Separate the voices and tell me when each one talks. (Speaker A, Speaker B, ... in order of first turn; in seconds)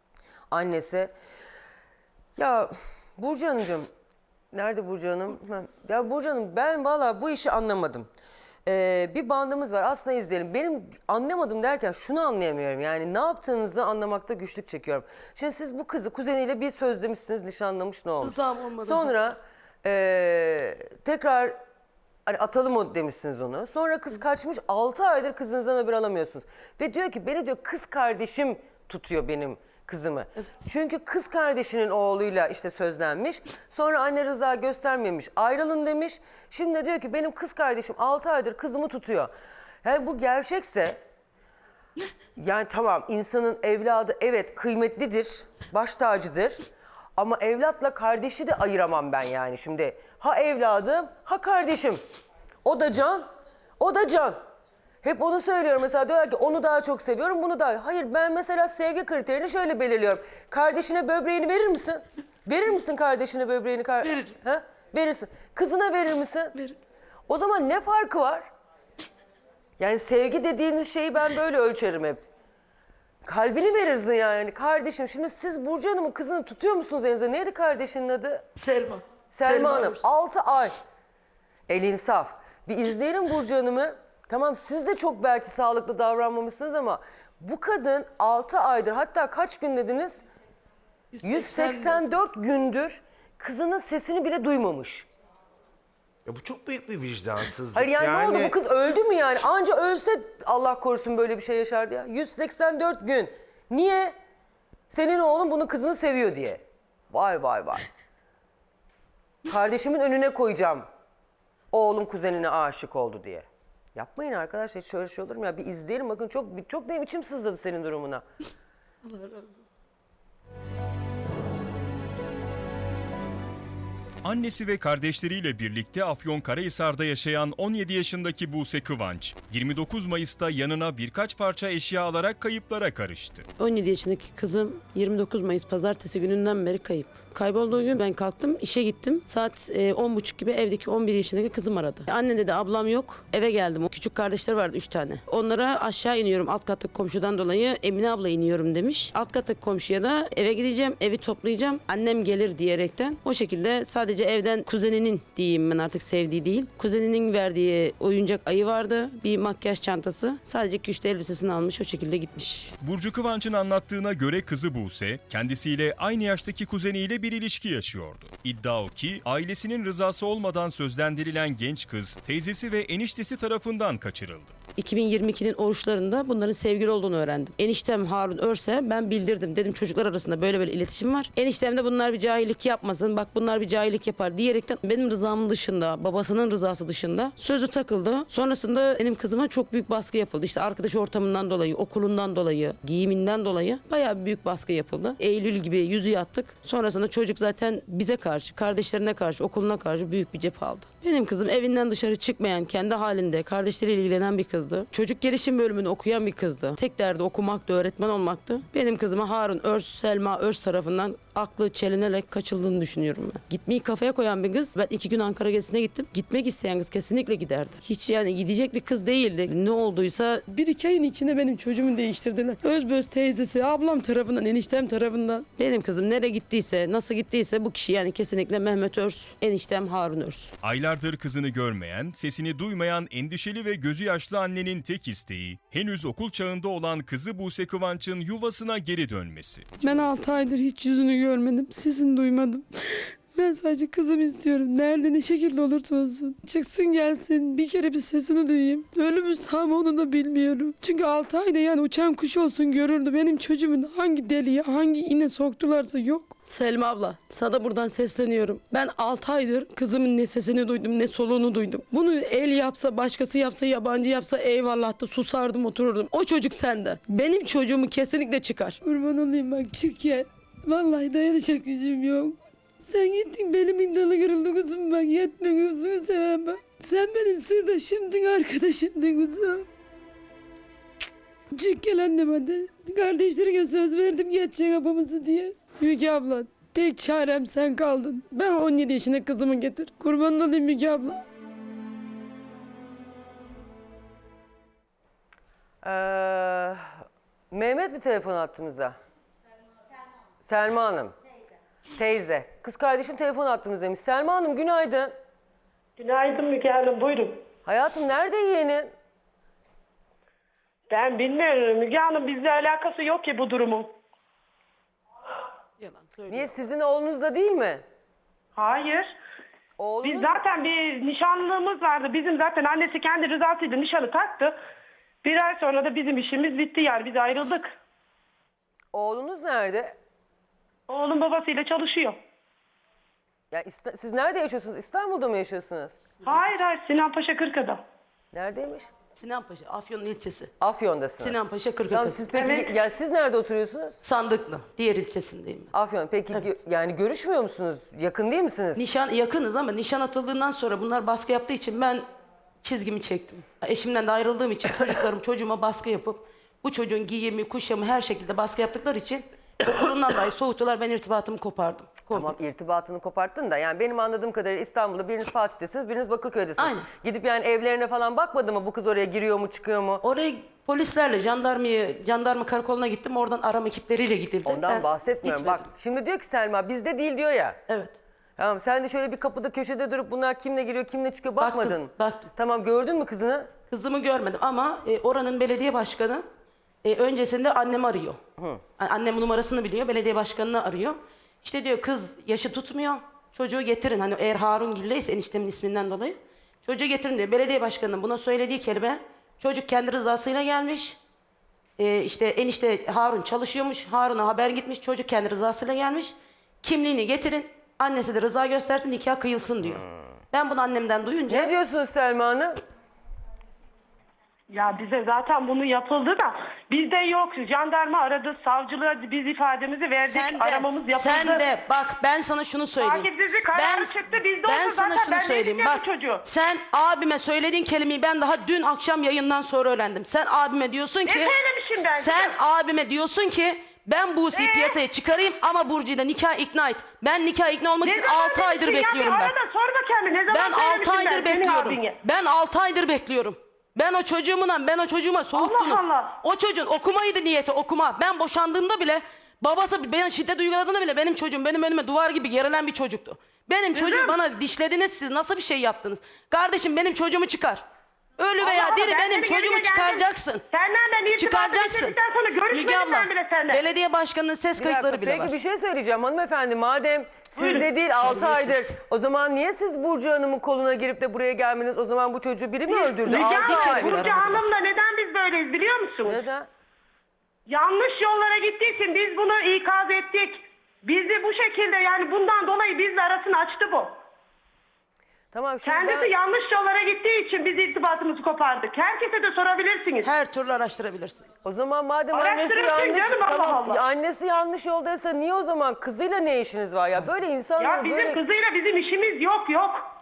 Speaker A: 0.5-1.1, 2.4-3.9, 4.5-8.1, 8.7-21.6, 22.3-39.3, 39.8-41.0, 42.4-52.0, 52.6-53.3, 53.8-54.4, 55.0-66.6, 67.3-68.5, 69.8-72.2, 73.2-78.5, 79.3-80.7, 81.7-90.2, 91.2-95.1, 97.7-104.2, 104.9-107.9, 109.5-110.9, 111.7-118.2, 295.8-296.9, 297.5-299.0, 300.4-301.1, 301.9-305.1, 307.6-308.9, 316.3-317.8, 319.8-320.4, 328.9-329.9, 333.5-336.0, 338.3-338.9, 340.6-344.0, 345.7-348.9, 362.1-370.0, 374.4-377.6, 378.4-383.5, 411.3-412.6, 464.6-474.1, 476.1-476.5, 485.3-486.1, 491.4-498.2
Speaker B: 18.2-19.1, 64.0-64.3, 78.6-80.0, 91.2-92.0, 119.1-119.4, 133.6-162.8, 174.8-230.5, 239.8-279.7, 281.5-291.2, 315.8-316.5, 339.2-340.5, 341.2-342.3, 344.0-345.7, 348.8-352.1, 352.6-362.3, 366.6-366.9, 370.0-375.7, 377.7-378.0, 381.4-382.3, 383.7-386.2, 386.8-388.2, 388.8-401.0, 401.8-411.5, 420.0-431.3, 431.9-439.3, 440.3-457.6, 458.2-460.4, 461.2-462.0, 462.5-465.3, 467.4-468.7, 473.2-474.5, 490.0-491.2
Speaker C: 96.3-98.6
Speaker D: 124.2-133.5, 162.8-174.6, 230.6-240.0
Speaker E: 306.0-307.4, 310.9-313.9, 318.6-319.1, 320.0-324.6, 325.2-327.7, 330.9-332.2, 336.2-337.8, 342.3-342.7, 414.5-421.5, 422.8-426.2, 431.1-432.4, 434.3-434.8, 437.8-442.0, 445.3-446.1, 453.7-454.2, 458.4-463.6, 472.7-476.2, 477.5-483.9, 485.6-490.1, 492.1-493.8, 497.6-499.9